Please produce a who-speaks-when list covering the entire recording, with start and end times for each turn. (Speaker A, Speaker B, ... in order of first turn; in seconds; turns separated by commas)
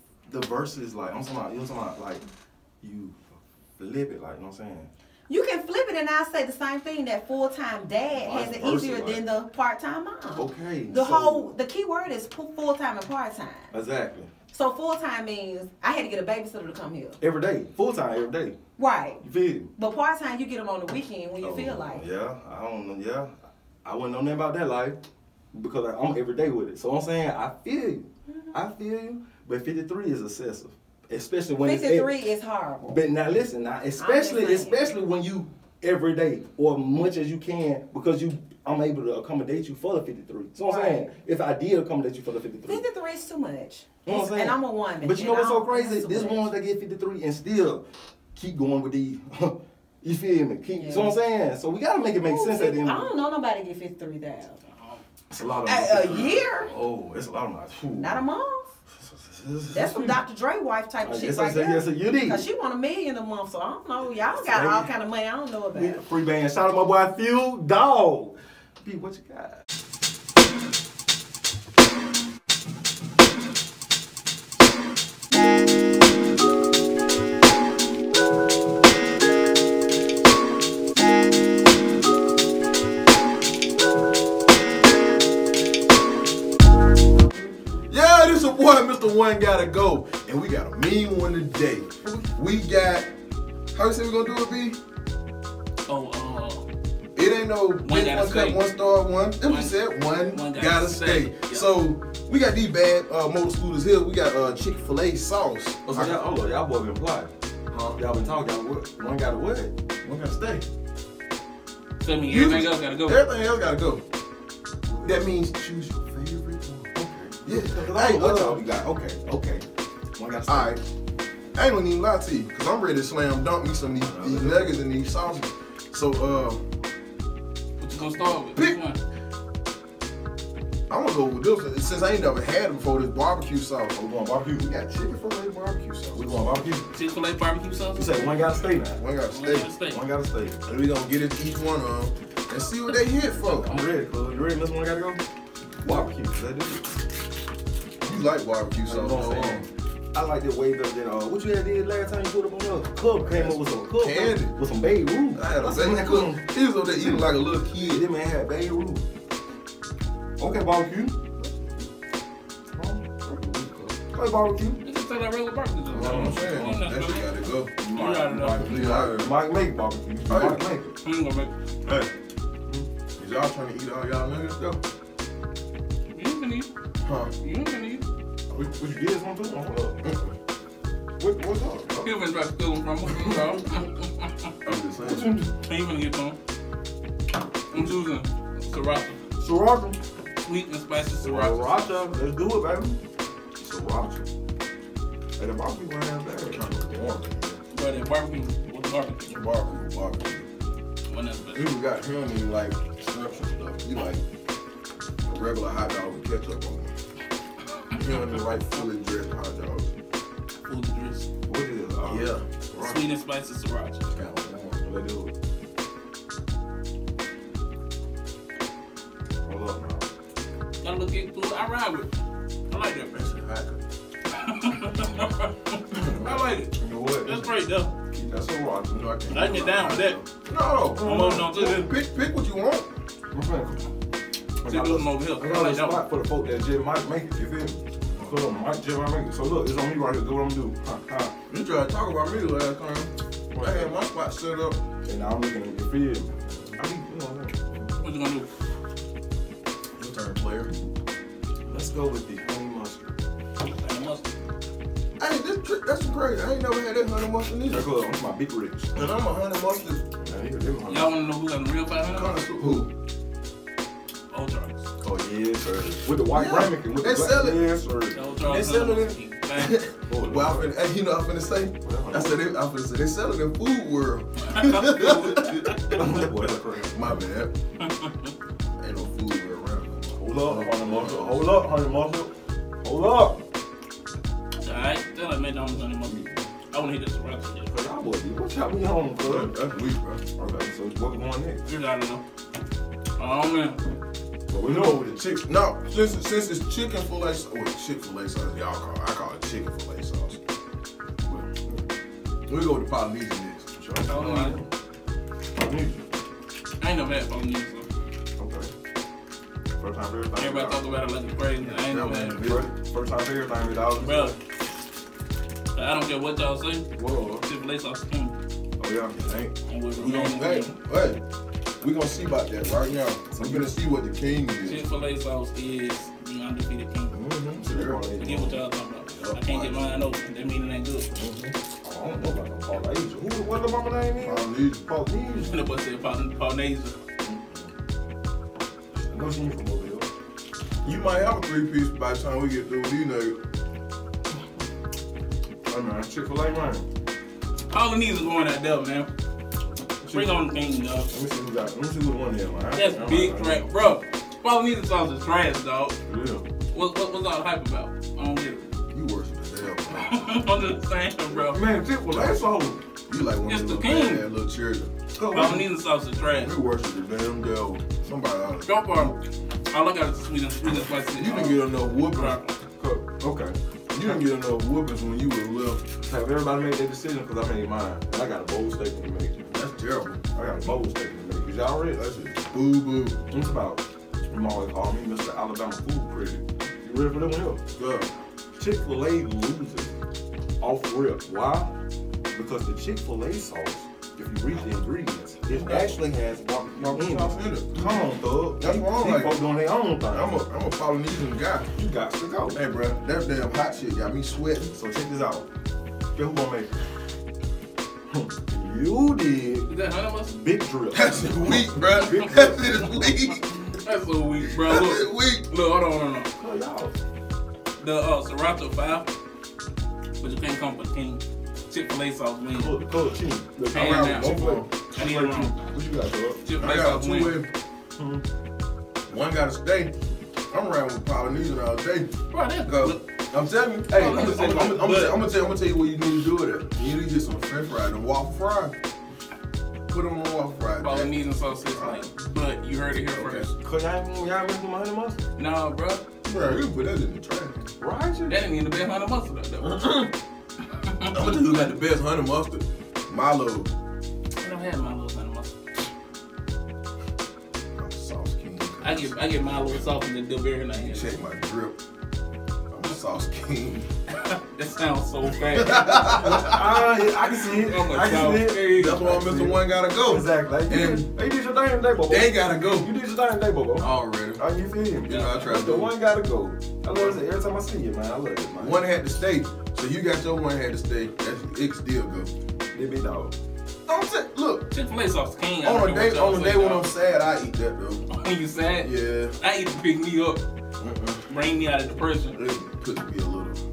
Speaker A: 0.3-2.2, Speaker A: 2.8-4.9, Speaker B: 5.3-13.7, Speaker A: 8.1-9.2, Speaker A: 10.3-11.4, Speaker A: 13.7-14.3, Speaker B: 14.5-17.2, Speaker A: 17.2-18.6, Speaker B: 18.8-19.2, Speaker A: 19.2-19.7, Speaker B: 19.8-22.0, Speaker A: 21.4-25.0, Speaker A: 25.5-32.1, Speaker B: 28.3-28.5, Speaker B: 31.6-33.0, Speaker A: 32.9-42.8, Speaker B: 34.0-34.8, Speaker B: 40.6-41.1, Speaker B: 42.7-46.4, Speaker A: 44.0-53.1, Speaker B: 50.7-51.1, Speaker B: 52.2-54.6, Speaker A: 55.3-58.2, Speaker B: 55.6-56.7, Speaker B: 58.0-58.7, Speaker A: 59.0-60.2, Speaker B: 59.7-66.0, Speaker A: 61.0-62.4, Speaker A: 64.3-64.9, Speaker A: 65.7-69.6, Speaker B: 87.5-87.8, Speaker C: 87.9-93.1, Speaker C: 93.7-94.8, Speaker D: 95.9-96.7, Speaker C: 97.2-106.2, Speaker D: 97.8-98.6, Speaker D: 99.4-99.8, Speaker D: 100.3-101.7, Speaker A: 105.9-107.3, Speaker C: 107.7-108.0, Speaker A: 108.0-109.7, Speaker C: 110.0-110.7, Speaker D: 112.0-113.2, Speaker C: 112.2-114.0, Speaker C: 115.0-116.9, Speaker A: 116.9-119.6, Speaker C: 117.4-118.6, Speaker A: 120.2-120.8, Speaker C: 120.5-120.8, Speaker C: 121.5-126.6, Speaker A: 124.0-124.7, Speaker D: 127.8-129.0, Speaker C: 128.5-128.8, Speaker C: 130.9-136.7, Speaker A: 136.1-136.9, Speaker D: 136.9-138.6, Speaker A: 137.9-139.0, Speaker C: 139.0-139.7, Speaker D: 139.3-140.0, Speaker A: 139.9-140.6, Speaker C: 140.7-143.8, Speaker A: 143.6-145.2, Speaker C: 145.8-146.1, Speaker A: 145.8-146.9, Speaker C: 148.0-149.7, Speaker A: 148.9-156.4, Speaker C: 153.2-154.6, Speaker C: 155.3-158.0, Speaker A: 157.0-159.1, Speaker A: 160.4-161.2, Speaker C: 161.4-161.9, Speaker A: 162.7-164.8, Speaker D: 164.8-167.3, Speaker C: 165.9-169.3, Speaker A: 166.0-166.3, Speaker A: 167.8-170.9, Speaker D: 167.9-168.9, Speaker C: 170.3-170.7, Speaker D: 171.0-171.5, Speaker C: 173.2-174.8, Speaker D: 176.1-176.7, Speaker C: 177.0-177.3, Speaker D: 177.4-178.1, Speaker A: 178.6-180.0, Speaker C: 181.2-182.1, Speaker A: 181.2-181.9, Speaker D: 182.0-184.5, Speaker C: 184.6-185.3, Speaker A: 185.0-185.5, Speaker D: 185.6-186.4, Speaker D: 187.7-189.2, Speaker A: 189.4-190.0, Speaker D: 190.4-192.0, Speaker A: 191.2-193.0, Speaker A: 193.6-194.2, Speaker A: 195.4-196.6, Speaker C: 196.5-197.6, Speaker D: 197.7-199.3, Speaker C: 199.3-200.5, Speaker D: 201.1-201.7, Speaker C: 201.5-204.2, Speaker C: 205.2-206.9, Speaker C: 207.9-209.9, Speaker D: 210.6-211.3, Speaker A: 211.4-212.3, Speaker C: 212.0-213.0, Speaker D: 212.8-214.1, Speaker C: 214.1-214.9, Speaker A: 214.8-215.3, Speaker A: 219.4-220.1, Speaker D: 220.8-222.1, Speaker D: 222.7-223.1, Speaker C: 223.1-223.8, Speaker D: 224.3-226.7, Speaker C: 225.9-226.5, Speaker A: 226.8-227.4, Speaker D: 227.2-227.9, Speaker C: 228.1-232.9, Speaker A: 228.2-228.6, Speaker D: 229.3-230.2, Speaker D: 231.0-231.9, Speaker A: 233.3-233.8, Speaker D: 234.6-236.0, Speaker A: 234.6-241.3, Speaker C: 238.0-238.4, Speaker C: 241.5-244.8, Speaker A: 243.5-243.9, Speaker A: 245.0-248.0, Speaker C: 246.5-246.8, Speaker D: 248.0-248.5, Speaker C: 250.0-250.7, Speaker A: 251.7-253.2, Speaker D: 253.8-254.3, Speaker C: 255.2-257.9, Speaker A: 257.7-258.9, Speaker C: 258.9-260.1, Speaker A: 260.2-261.1, Speaker D: 260.9-262.4, Speaker C: 262.1-262.9, Speaker A: 262.6-262.9, Speaker D: 264.3-264.9, Speaker A: 265.0-268.2, Speaker C: 266.3-267.7, Speaker D: 268.1-269.8, Speaker C: 268.4-277.5, Speaker A: 270.1-270.6, Speaker A: 271.8-272.5, Speaker D: 274.5-274.8, Speaker A: 275.0-276.9, Speaker D: 277.8-278.3, Speaker C: 278.8-281.5, Speaker A: 280.2-283.4, Speaker D: 284.6-286.2, Speaker C: 286.0-286.4, Speaker D: 286.7-287.8, Speaker A: 287.7-289.6, Speaker C: 289.2-290.3, Speaker A: 290.3-291.6, Speaker D: 291.6-292.2, Speaker D: 293.2-293.8, Speaker C: 294.5-300.4, Speaker A: 294.6-295.0, Speaker C: 301.2-301.6, Speaker C: 302.5-304.1, Speaker A: 303.9-304.7, Speaker D: 304.1-304.6, Speaker A: 305.6-306.0, Speaker D: 306.8-307.9, Speaker A: 308.4-308.7, Speaker A: 309.8-310.8, Speaker D: 310.4-312.4, Speaker C: 311.6-312.7, Speaker A: 312.4-314.4, Speaker D: 314.0-314.4, Speaker D: 315.7-316.9, Speaker C: 317.0-317.4, Speaker D: 317.4-318.4, Speaker A: 318.8-319.2, Speaker C: 319.2-321.2, Speaker D: 319.7-320.7, Speaker C: 321.8-324.9, Speaker A: 323.3-323.7, Speaker D: 324.6-327.1, Speaker C: 327.1-328.0, Speaker A: 327.6-328.6, Speaker D: 328.2-331.1, Speaker C: 329.1-329.8, Speaker C: 331.1-331.5, Speaker A: 331.8-335.6, Speaker C: 334.2-334.9, Speaker D: 335.4-337.0, Speaker A: 337.2-337.7, Speaker A: 339.1-340.1, Speaker C: 340.8-343.4, Speaker A: 345.6-346.8, Speaker D: 347.7-349.1, Speaker A: 350.0-350.4, Speaker D: 350.1-351.1, Speaker A: 351.1-353.6, Speaker D: 352.7-356.0, Speaker A: 356.1-356.4, Speaker D: 356.7-358.7, Speaker C: 358.9-360.3, Speaker D: 359.9-361.6, Speaker A: 361.5-362.8, Speaker C: 362.1-362.4, Speaker C: 363.0-364.9, Speaker D: 363.5-364.2, Speaker A: 365.1-365.6, Speaker D: 365.3-366.5, Speaker C: 366.2-369.2, Speaker D: 368.6-369.2, Speaker D: 369.7-372.5, Speaker C: 371.2-372.4, Speaker A: 372.8-373.6, Speaker C: 373.9-375.9, Speaker A: 376.0-379.4, Speaker C: 379.5-380.2, Speaker A: 380.3-381.8, Speaker C: 381.7-383.2, Speaker A: 383.3-387.6, Speaker C: 387.7-388.1, Speaker A: 388.6-389.9, Speaker A: 390.6-391.7, Speaker A: 392.3-400.3, Speaker C: 395.5-396.0, Speaker C: 396.7-399.4, Speaker C: 400.1-401.7, Speaker A: 401.7-402.6, Speaker C: 402.5-404.7, Speaker A: 404.7-405.5, Speaker A: 406.1-406.7, Speaker A: 408.1-409.7, Speaker D: 409.7-410.3, Speaker A: 410.3-413.0, Speaker C: 410.9-413.5, Speaker D: 413.7-416.3, Speaker C: 414.5-415.4, Speaker A: 416.4-416.9, Speaker D: 417.8-419.1, Speaker D: 420.2-422.8, Speaker A: 422.6-426.4, Speaker D: 423.7-424.4, Speaker C: 423.7-424.7, Speaker D: 424.9-425.5, Speaker D: 426.4-427.4, Speaker C: 426.6-427.5, Speaker A: 428.0-428.2, Speaker C: 429.1-429.9, Speaker C: 430.5-432.1, Speaker D: 432.3-433.0, Speaker C: 432.6-438.8, Speaker A: 433.9-435.1, Speaker D: 433.9-435.2, Speaker C: 439.9-441.1, Speaker D: 440.8-443.5, Speaker C: 441.7-442.0, Speaker C: 443.1-443.5, Speaker A: 443.5-445.2, Speaker D: 445.4-446.0, Speaker C: 446.2-447.7, Speaker A: 447.8-448.4, Speaker D: 448.3-450.0, Speaker C: 449.6-450.1, Speaker D: 450.7-451.6, Speaker C: 451.1-453.7, Speaker D: 454.4-455.6, Speaker C: 457.8-459.1, Speaker D: 458.8-461.1, Speaker C: 460.7-461.8, Speaker C: 462.7-463.9, Speaker D: 464.1-466.4, Speaker C: 465.5-466.9, Speaker A: 466.2-478.8, Speaker D: 467.4-469.0, Speaker C: 468.7-471.1, Speaker C: 472.1-472.9, Speaker C: 473.8-474.4, Speaker C: 475.0-475.9, Speaker D: 475.1-475.5, Speaker C: 478.6-482.3, Speaker A: 482.7-483.3, Speaker C: 483.9-484.7, Speaker D: 484.7-486.9, Speaker C: 485.6-488.1, Speaker D: 488.1-490.4, Speaker C: 488.8-489.4, Speaker C: 490.8-491.3, Speaker D: 491.3-492.4, Speaker C: 492.3-493.6